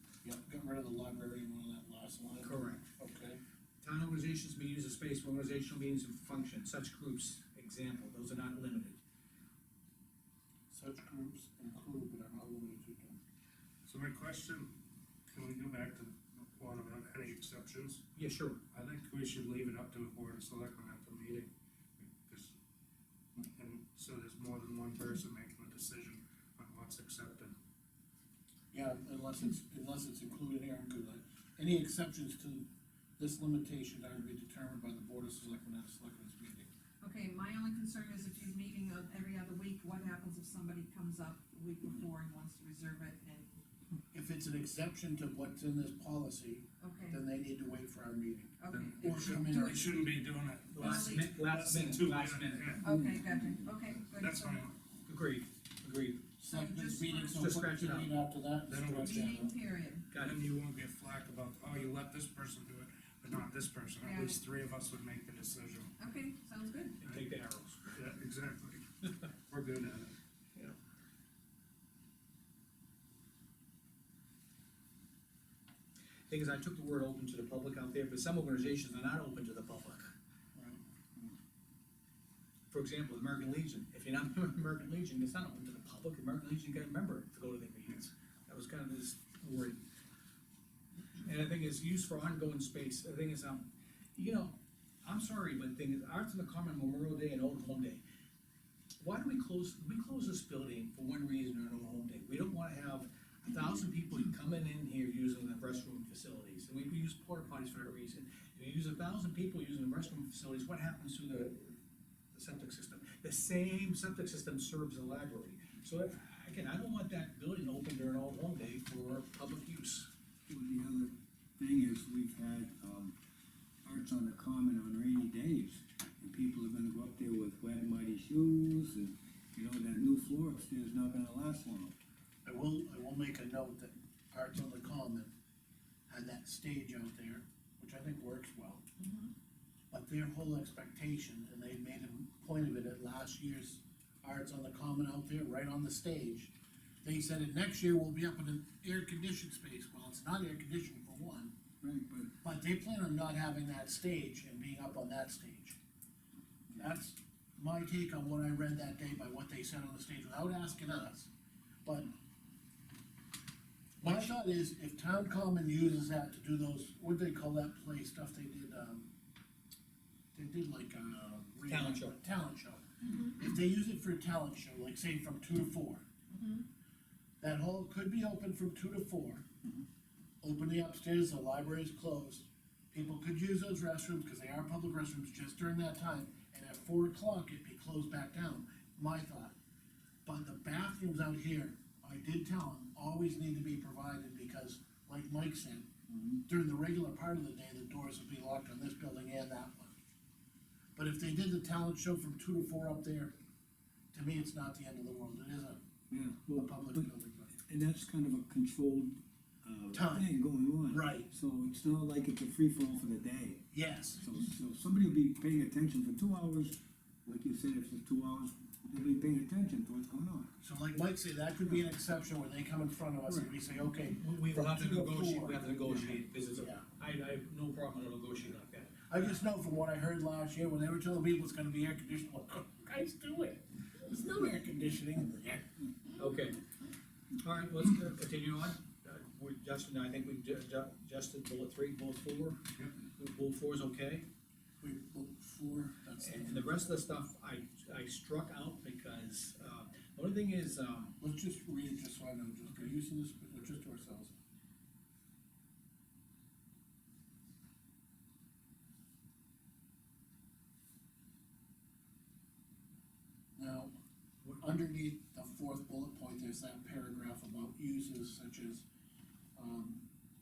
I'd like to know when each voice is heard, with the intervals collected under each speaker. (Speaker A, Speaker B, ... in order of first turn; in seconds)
Speaker A: 0.2-3.4, 10.7-13.2, 28.7-32.7, 33.2-36.7, 44.1-49.9, 56.4-59.5, 80.5-80.8, 132.4-135.3, 136.1-138.8, 139.9-151.5, 152.4-155.8, 156.8-161.3, 161.8-162.1, 164.0-169.1, 170.3-176.0, 177.4-179.4, 180.4-189.5, 190.2-195.9, 196.5-199.9, 200.9-203.3, 204.1-205.8, 206.5-207.6, 209.9-210.3, 210.9-211.3, 213.7-214.2, 220.6-226.8, 229.1-235.9, 244.8-246.9, 251.2-254.3, 263.6-263.9, 264.6-268.9, 269.6-270.0
Speaker B: 2.4-2.9, 3.8-9.0, 18.1-18.6, 50.7-52.8, 55.0-56.3, 57.3-58.1, 60.1-60.4, 67.0-68.0, 76.3-80.1, 82.7-89.8, 91.2-98.0, 99.0-111.8, 112.3-120.1, 164.0-164.3, 171.7-172.2, 224.2-229.5, 236.2-236.6, 237.4-242.6, 243.2-244.3, 246.2-251.2
Speaker C: 13.8-14.7, 15.3-18.0, 18.7-22.5, 23.4-27.6, 48.7-54.8, 58.7-59.5, 60.1-65.9, 67.9-68.8, 69.5-70.1
Speaker D: 37.0-43.6, 46.8-47.2, 48.6-49.9, 50.8-51.3, 52.8-54.7, 56.5-57.5, 59.0-60.1, 64.0-64.4, 66.0-67.0, 139.0-139.3, 173.0-173.3, 176.3-176.6
Speaker E: 52.9-53.2, 120.5-123.2, 123.8-132.0, 151.8-152.3, 196.1-196.4, 206.1-207.1, 207.7-220.6, 223.3-223.5